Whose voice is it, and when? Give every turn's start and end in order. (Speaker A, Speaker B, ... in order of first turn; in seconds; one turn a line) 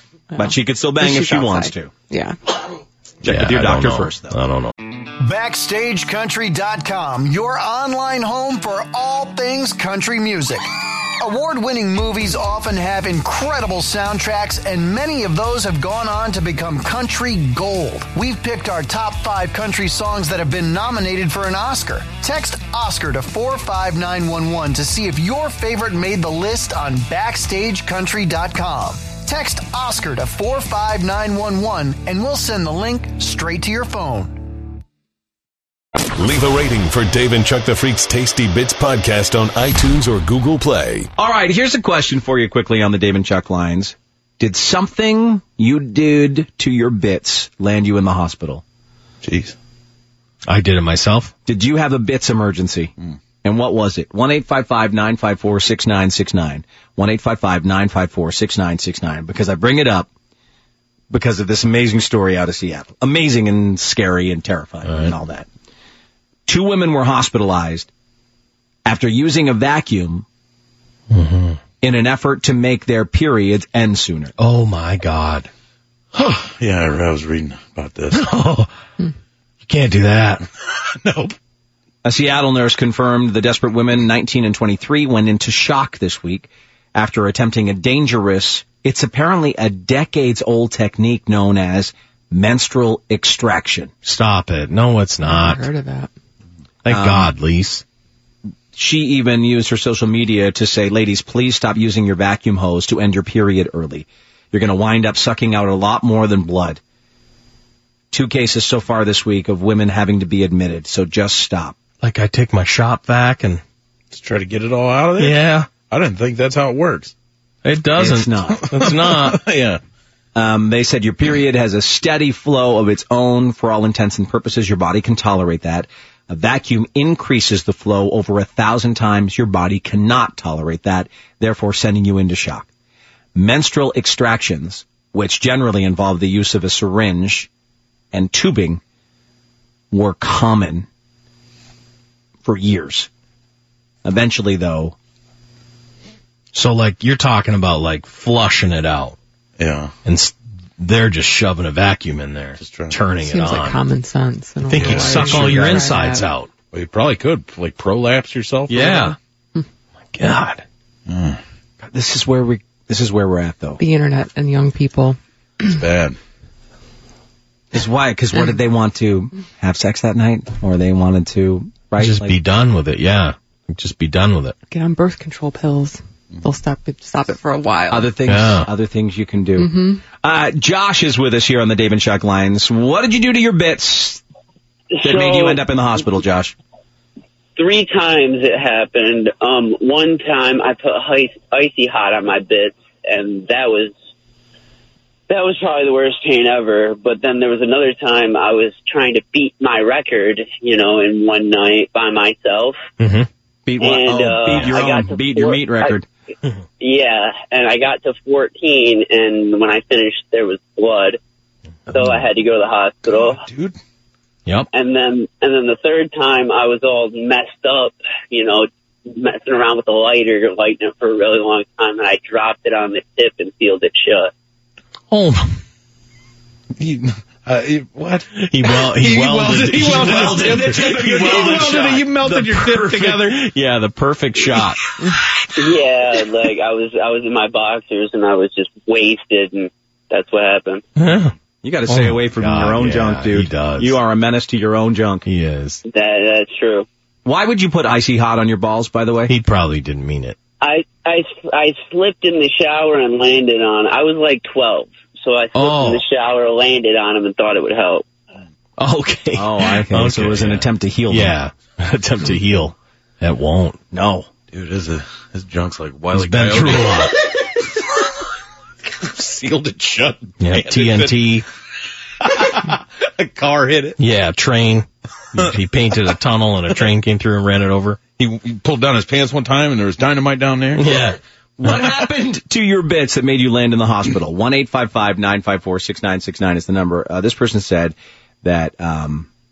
Speaker A: 0.3-2.4
Speaker B: 0.4-1.9
Speaker B: 3.2-4.4
Speaker C: 3.2-4.7
Speaker D: 5.2-10.7
Speaker D: 11.2-34.4
Speaker E: 36.2-41.1
Speaker B: 41.2-48.6
Speaker F: 49.2-49.5
Speaker C: 50.5-51.3
Speaker B: 51.5-60.1
Speaker B: 61.1-65.5
Speaker C: 64.9-65.1
Speaker B: 66.5-67.9
Speaker B: 68.8-70.2
Speaker C: 71.1-71.6
Speaker B: 71.8-74.3
Speaker C: 74.4-75.5
Speaker F: 76.1-78.3
Speaker C: 78.1-78.7
Speaker C: 79.6-80.5
Speaker F: 81.0-81.3
Speaker B: 82.0-93.9
Speaker C: 94.0-95.7
Speaker A: 95.2-96.1
Speaker C: 96.8-97.8
Speaker B: 96.9-97.3
Speaker B: 98.8-106.8
Speaker B: 108.1-111.8
Speaker C: 112.0-113.6
Speaker F: 114.1-117.1
Speaker C: 115.2-115.7
Speaker C: 117.6-119.4
Speaker B: 118.0-118.7
Speaker F: 118.6-119.8
Speaker B: 120.3-132.7
Speaker B: 133.3-137.5
Speaker B: 138.1-138.8
Speaker B: 139.9-140.9
Speaker B: 142.4-143.1
Speaker B: 144.0-145.0
Speaker C: 146.5-149.2
Speaker F: 149.6-149.9
Speaker C: 150.1-153.8
Speaker F: 152.6-153.0
Speaker A: 153.2-156.3
Speaker C: 154.7-156.5
Speaker F: 154.7-155.8
Speaker F: 156.7-159.1
Speaker C: 158.7-159.2
Speaker C: 160.1-160.6
Speaker F: 161.1-161.4
Speaker B: 161.8-163.8
Speaker A: 163.8-165.2
Speaker F: 165.7-166.2
Speaker B: 167.7-172.4
Speaker C: 172.0-174.6
Speaker A: 174.7-178.1
Speaker B: 177.9-184.2
Speaker C: 178.3-178.7
Speaker A: 179.6-180.0
Speaker G: 185.0-185.6
Speaker B: 185.0-186.6
Speaker G: 187.6-193.9
Speaker G: 195.3-202.8
Speaker C: 203.0-203.3
Speaker B: 203.7-206.1
Speaker G: 203.8-206.0
Speaker G: 206.8-211.2
Speaker G: 211.9-213.4
Speaker F: 213.4-213.8
Speaker G: 214.7-224.3
Speaker C: 225.1-225.6
Speaker F: 226.8-233.4
Speaker C: 228.4-234.8
Speaker B: 229.9-233.2
Speaker G: 235.6-240.8
Speaker C: 241.0-241.3
Speaker B: 241.6-245.3
Speaker C: 241.9-244.0
Speaker C: 245.3-245.8
Speaker G: 245.8-246.9
Speaker B: 247.2-249.3
Speaker C: 249.3-250.4
Speaker G: 250.6-258.1
Speaker C: 255.5-256.0
Speaker C: 258.8-263.8
Speaker B: 259.4-261.3
Speaker B: 263.9-264.3
Speaker F: 264.5-267.1
Speaker C: 266.1-267.1
Speaker F: 269.0-271.2
Speaker C: 270.4-271.5
Speaker F: 272.2-274.0
Speaker C: 274.0-278.0
Speaker F: 278.2-281.0
Speaker C: 280.8-281.2
Speaker B: 281.6-289.3